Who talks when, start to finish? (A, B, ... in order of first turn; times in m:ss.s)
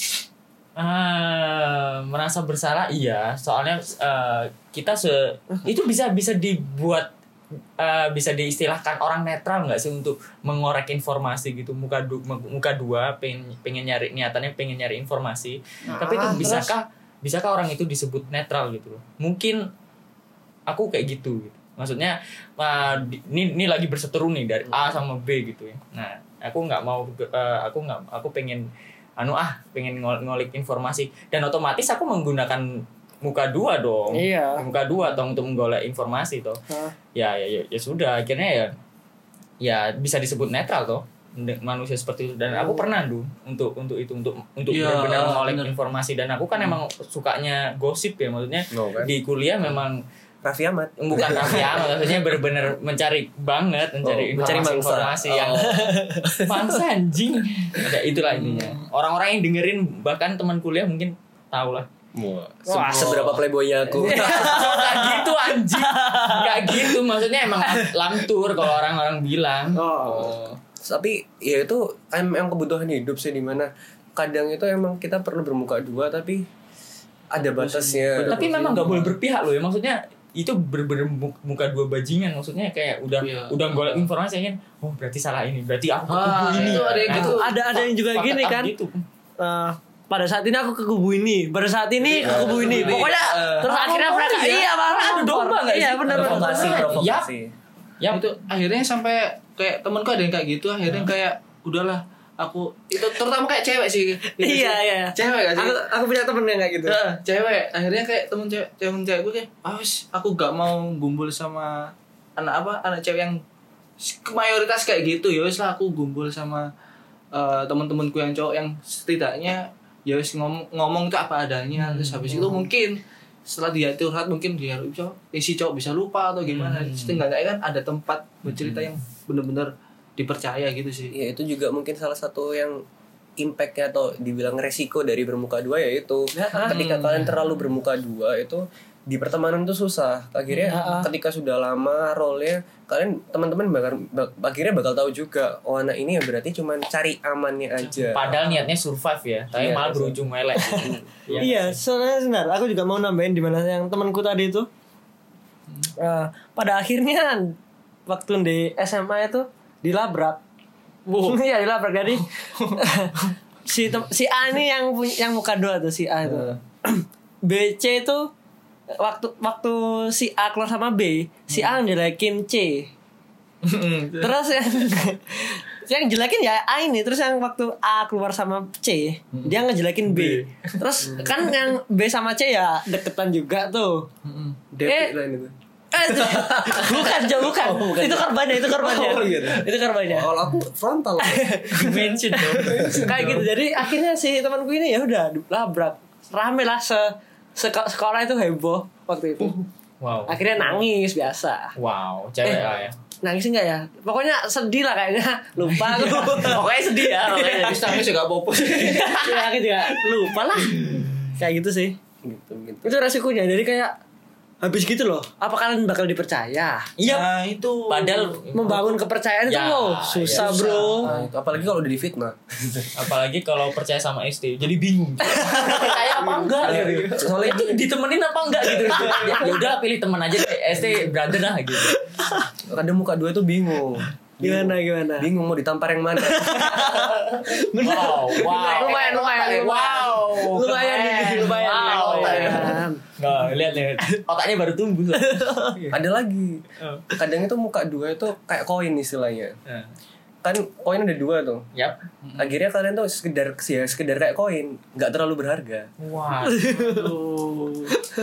0:00.8-0:07.1 A
0:07.8-0:19.6 A
0:15.9-0:16.7 B
0:20.7-0:36.6 A
0:34.1-0:34.7 B
0:37.1-0:38.7 A
0:39.6-0:50.0 A
0:42.5-0:42.9 B
0:44.7-0:45.7 C
0:48.7-0:49.1 D
0:50.4-0:52.0 D
0:51.0-1:01.9 A
0:54.0-0:56.5 D
0:54.4-0:54.8 B
0:55.5-0:56.4 B
0:58.2-0:58.8 C
1:02.2-1:04.9 D
1:02.7-1:03.4 B
1:04.0-1:06.9 B
1:04.0-1:09.8 A
1:07.6-1:07.9 B
1:09.7-1:10.4 B
1:10.1-1:16.4 D
1:17.3-1:19.0 D
1:17.5-1:19.1 C
1:18.2-1:29.0 A
1:23.2-1:24.1 C
1:26.1-1:27.5 C
1:26.6-1:28.7 B
1:29.4-1:37.0 B
1:32.0-1:33.7 C
1:32.1-1:33.1 D
1:32.6-1:33.0 A
1:33.6-1:37.3 A
1:36.1-1:37.5 D
1:38.1-1:45.8 C
1:44.4-1:47.0 B
1:46.9-1:53.4 C
1:54.0-1:56.7 C
1:57.3-2:11.1 C
2:01.8-2:02.4 A
2:06.5-2:07.2 A
2:08.5-2:08.9 A
2:11.1-2:12.8 D
2:13.4-2:28.4 D
2:16.4-2:17.4 C
2:16.5-2:16.8 B
2:20.7-2:21.1 B
2:27.8-2:28.7 C
2:28.1-2:31.8 A
2:29.5-2:30.2 D
2:30.6-2:34.7 B
2:30.7-2:31.5 D
2:36.0-2:37.6 B
2:38.1-2:40.4 B
2:41.1-2:41.4 C
2:41.1-2:43.1 B
2:42.1-2:43.3 C
2:43.7-2:48.3 B
2:46.2-2:46.6 C
2:48.9-2:52.9 B
2:51.5-2:51.8 C
2:53.6-2:54.3 C
2:54.2-3:04.1 B
2:59.3-3:00.8 C
3:04.2-3:04.6 C
3:04.7-3:13.4 D
3:04.8-3:05.1 B
3:05.9-3:10.3 B
3:11.2-3:19.6 B
3:11.8-3:13.5 C
3:20.0-3:20.6 A
3:20.3-3:21.7 B
3:21.8-3:23.0 A
3:22.4-3:26.6 B
3:25.8-3:26.5 C
3:26.0-3:27.9 A
3:27.3-3:29.4 C
3:28.8-3:29.6 A
3:28.9-3:32.0 B
3:30.4-3:31.1 C
3:32.2-3:32.9 D
3:32.8-3:34.0 B
3:34.6-3:36.9 B
3:37.0-3:37.3 A
3:37.0-3:38.4 C
3:37.9-3:41.1 A
3:38.5-3:41.1 B
3:40.4-3:41.3 C
3:40.7-3:42.9 D
3:43.0-3:52.0 A
3:45.4-3:46.0 B
3:45.8-3:47.3 C
3:46.6-3:47.8 D
3:48.9-3:49.5 C
3:48.9-3:49.6 B
3:52.1-3:52.5 B
3:52.7-3:57.0 D
3:54.4-3:55.3 B
3:56.2-4:03.0 B
3:56.9-3:57.4 C
3:57.8-4:05.9 A
3:58.4-3:59.3 C
4:01.4-4:02.8 C
4:05.2-4:05.8 B
4:05.9-4:06.6 D
4:06.8-4:07.0 A
4:07.2-4:09.6 D
4:10.4-4:11.7 D
4:11.8-4:12.0 A
4:12.2-4:12.6 C
4:12.4-4:15.9 D
4:16.0-4:16.8 A
4:16.4-4:17.2 B
4:16.8-4:18.0 C